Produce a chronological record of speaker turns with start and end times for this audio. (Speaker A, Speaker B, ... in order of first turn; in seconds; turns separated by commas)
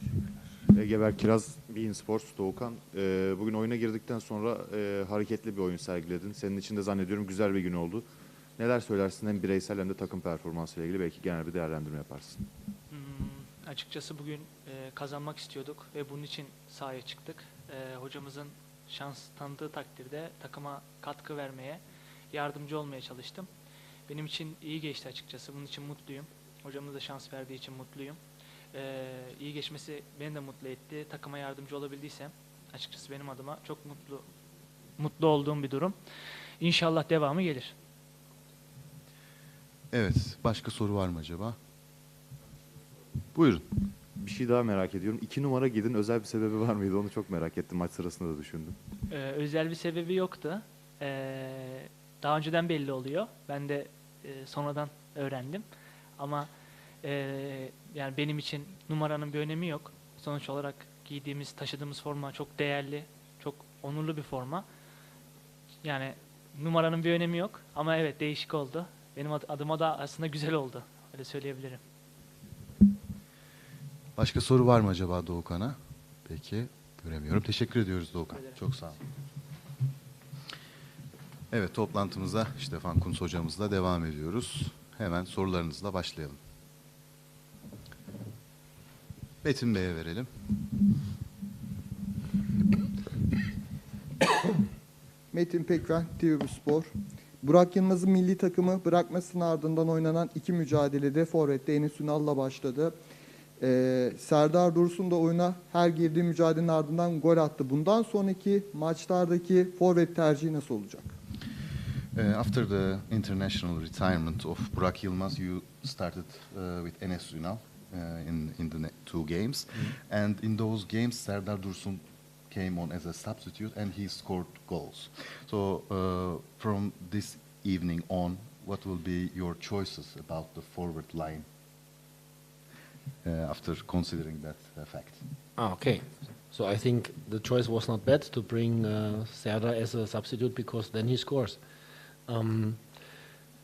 Speaker A: 0.7-8.1, Speaker A: 8.6-12.5, Speaker B: 12.9-23.5, Speaker B: 24.1-28.2, Speaker B: 28.7-34.3, Speaker B: 35.0-36.0, Speaker B: 36.6-37.7, Speaker C: 39.9-41.6, Speaker C: 43.3-43.7, Speaker A: 44.2-48.8, Speaker B: 49.1-55.6, Speaker B: 56.2-56.5, Speaker B: 57.0-64.7, Speaker B: 65.8-71.8, Speaker C: 74.2-75.8, Speaker C: 76.3-79.0, Speaker C: 81.5-86.4, Speaker C: 89.4-90.3, Speaker D: 95.3-96.9, Speaker D: 97.4-102.9, Speaker D: 103.6-111.1, Speaker C: 112.2-131.4, Speaker C: 133.2-135.2, Speaker E: 135.6-141.6, Speaker E: 142.3-142.8